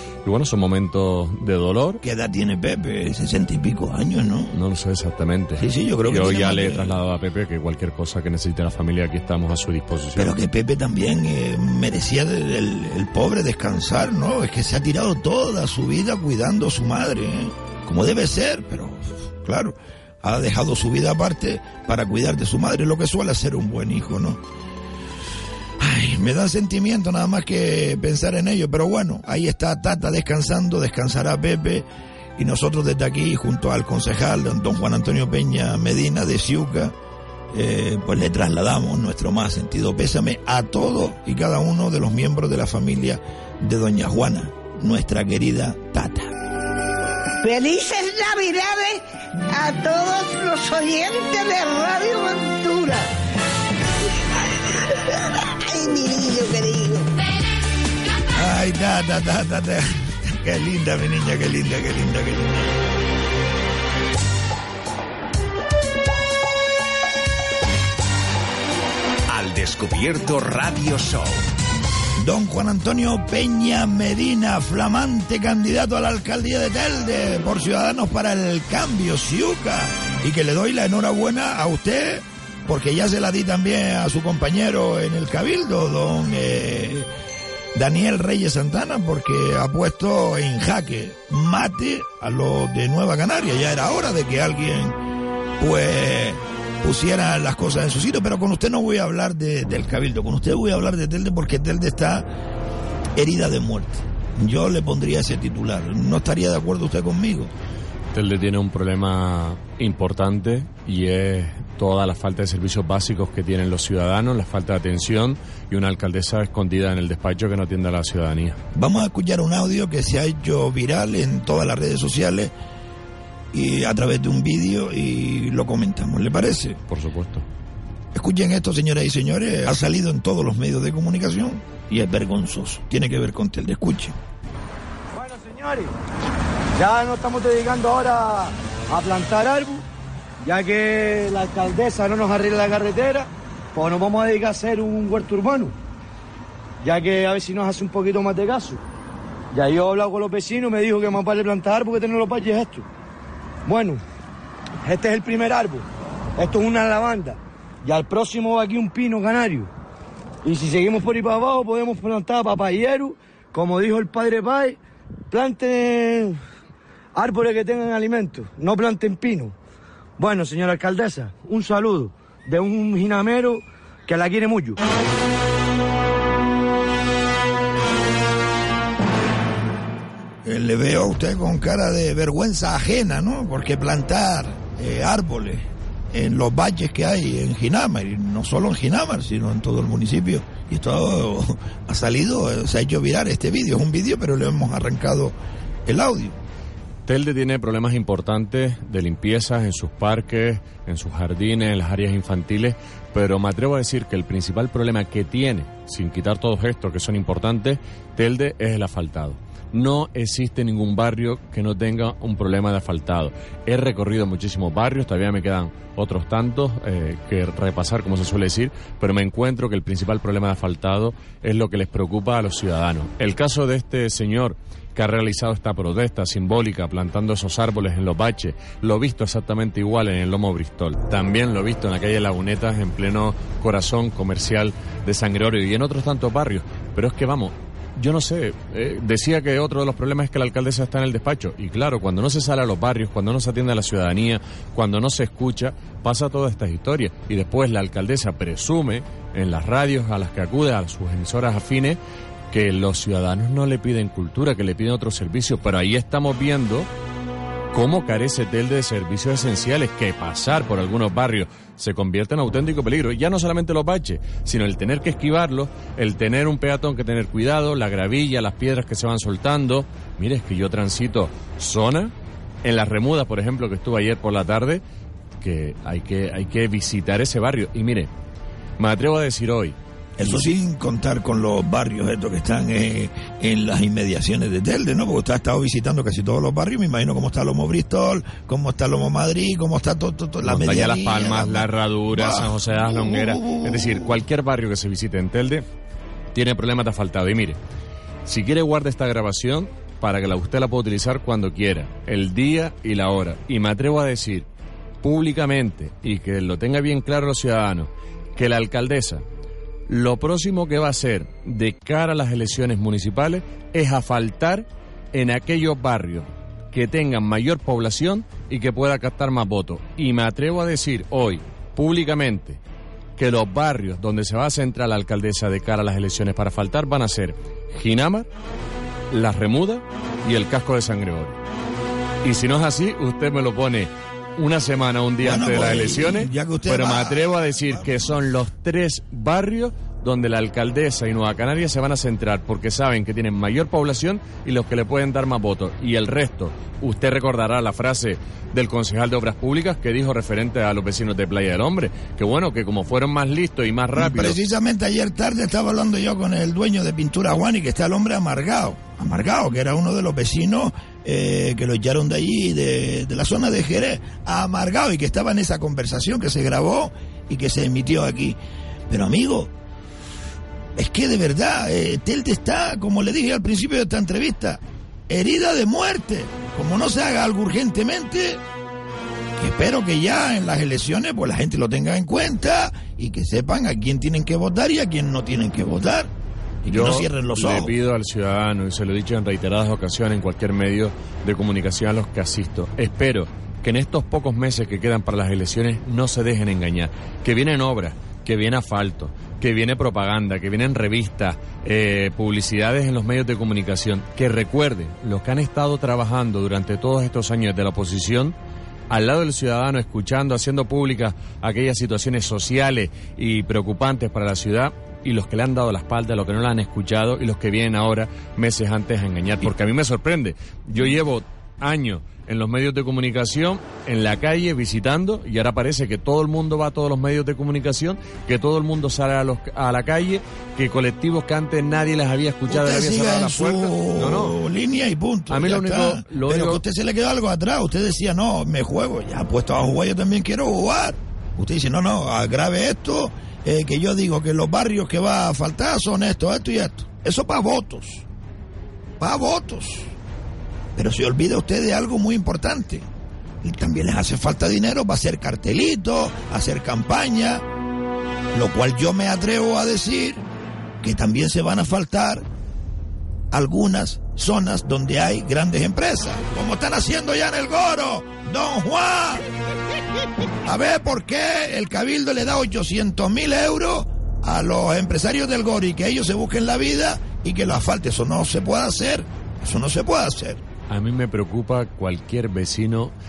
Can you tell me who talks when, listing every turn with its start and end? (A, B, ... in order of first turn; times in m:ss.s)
0:00.2-0:02.0 A
0:02.0-0:04.5 B
0:04.5-0:10.4 A
0:05.6-0:07.0 B
0:10.2-0:24.4 B
0:25.8-0:31.9 B
0:32.4-0:36.9 B
0:37.5-0:46.3 B
0:47.4-0:53.1 C
0:55.6-0:57.1 C
0:58.3-1:02.7 B
1:09.3-1:11.4 D
1:12.2-1:27.1 B
1:27.7-1:35.0 B
1:35.6-1:42.3 B
1:43.2-1:47.5 B
1:48.1-1:58.6 A
1:58.7-2:02.5 B
2:03.5-2:06.8 B
2:06.9-2:07.5 A
2:08.1-2:14.2 B
2:15.1-2:15.9 E
2:16.8-2:19.8 E
2:20.4-2:25.7 E
2:26.8-2:28.8 E
2:29.5-2:32.9 E
2:33.7-2:34.0 E
2:34.8-2:35.9 E
2:36.4-2:39.7 E
2:40.4-2:44.8 E
2:45.3-2:46.4 E
2:47.2-2:49.6 E
2:50.2-2:54.8 E
3:00.4-3:16.4 B
3:17.1-4:12.0 A
4:12.5-4:16.9 A
4:17.7-4:32.1 A
4:32.6-4:34.8 A
4:35.4-4:38.1 A
4:38.8-4:40.4 A
4:40.2-4:54.2 B
4:50.4-4:55.6 A
4:56.3-4:57.6 A
4:58.2-5:04.5 A
5:05.0-5:09.2 A
5:09.9-5:22.6 A
5:23.2-5:28.3 A
5:29.1-5:31.4 A
5:32.2-5:54.4 A
5:35.2-5:38.2 B
5:54.0-6:09.5 B
6:10.8-6:18.4 B
6:19.4-6:26.1 B
6:26.6-6:27.8 B
6:26.7-6:48.4 A
6:48.9-7:14.4 A
7:12.5-7:28.0 B
7:15.3-7:16.6 A
7:29.0-7:29.9 B
7:30.8-7:32.9 B
7:33.4-7:37.4 B
7:38.3-7:40.2 B
7:40.8-7:42.2 B
7:43.3-7:49.2 B
7:50.4-8:00.4 B
8:00.7-8:02.9 A